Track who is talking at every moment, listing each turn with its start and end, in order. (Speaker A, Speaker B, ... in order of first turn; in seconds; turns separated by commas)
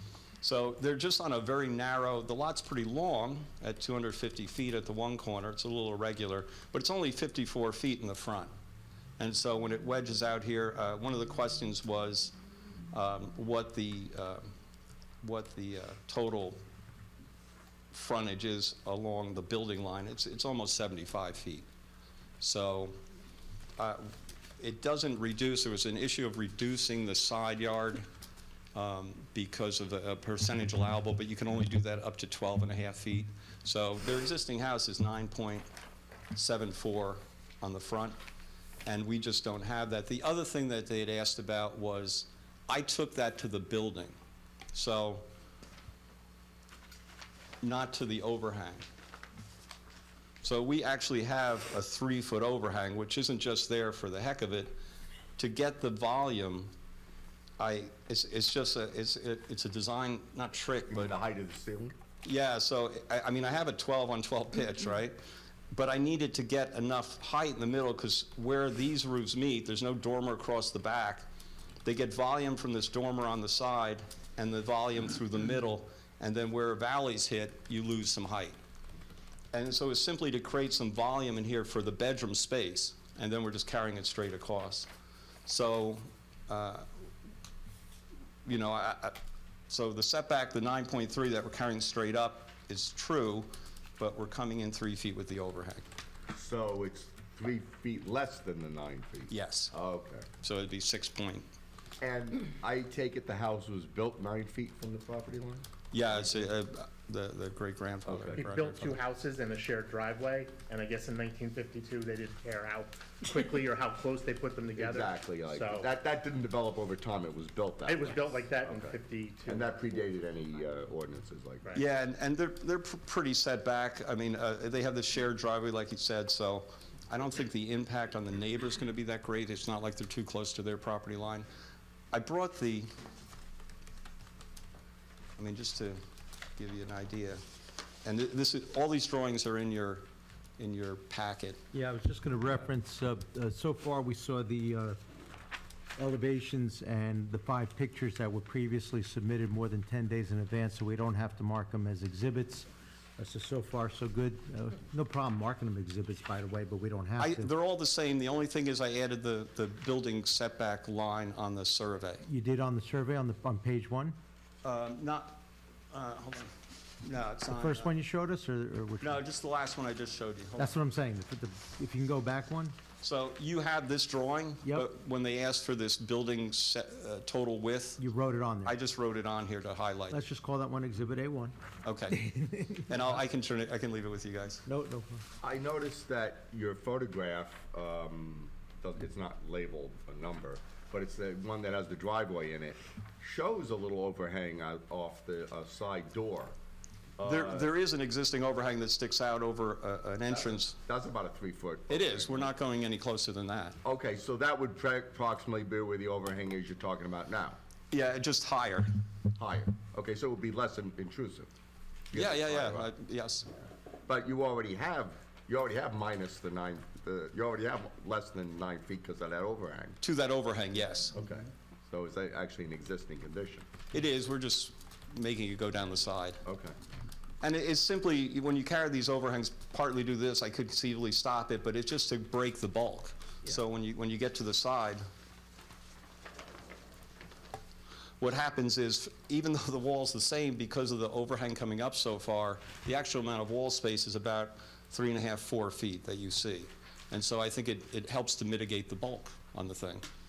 Speaker A: 0.4-8.5, Speaker A: 9.2-12.3, Speaker A: 12.9-14.5, Speaker A: 15.2-16.6, Speaker A: 17.9-21.7, Speaker A: 22.4-23.0, Speaker A: 23.8-28.0, Speaker A: 28.7-35.7, Speaker A: 36.3-38.2, Speaker A: 38.8-44.1, Speaker A: 44.7-45.2, Speaker A: 47.6-48.9, Speaker A: 50.4-54.7, Speaker A: 55.4-56.7, Speaker A: 57.6-61.1, Speaker B: 60.9-61.9, Speaker A: 62.2-65.2, Speaker A: 65.7-71.2, Speaker A: 71.8-78.6, Speaker A: 79.5-84.9, Speaker A: 85.5-86.9, Speaker A: 88.4-89.2, Speaker A: 89.7-95.8, Speaker B: 96.3-100.2, Speaker A: 99.3-99.7, Speaker A: 100.4-101.5, Speaker B: 102.0-105.7, Speaker A: 105.9-109.0, Speaker B: 108.0-108.4, Speaker C: 108.3-115.9, Speaker B: 114.7-121.7, Speaker C: 117.8-119.7, Speaker A: 121.7-131.5, Speaker A: 132.1-132.9, Speaker A: 135.4-136.0, Speaker A: 136.6-137.4, Speaker A: 138.0-140.1, Speaker A: 140.6-141.6, Speaker D: 141.7-145.0, Speaker D: 146.0-157.5, Speaker A: 157.2-162.2, Speaker D: 162.2-164.2, Speaker A: 164.6-165.4, Speaker A: 165.9-167.9, Speaker D: 167.5-169.2, Speaker A: 169.0-170.8, Speaker D: 170.6-172.8, Speaker A: 173.0-178.0, Speaker D: 178.0-178.8, Speaker A: 178.6-180.2, Speaker D: 180.1-181.6, Speaker A: 181.8-184.6, Speaker D: 182.1-182.8, Speaker D: 184.7-185.2, Speaker B: 185.4-196.5, Speaker B: 197.2-197.7, Speaker A: 197.2-200.8, Speaker B: 200.3-202.5, Speaker A: 201.9-203.8, Speaker B: 203.8-207.6, Speaker A: 207.9-208.9, Speaker B: 209.3-211.5, Speaker B: 212.1-212.9, Speaker A: 212.1-213.5, Speaker B: 214.1-220.0, Speaker A: 220.0-221.1, Speaker B: 221.1-223.7, Speaker A: 223.9-226.4, Speaker B: 226.4-226.7, Speaker A: 227.4-235.0, Speaker A: 238.2-250.0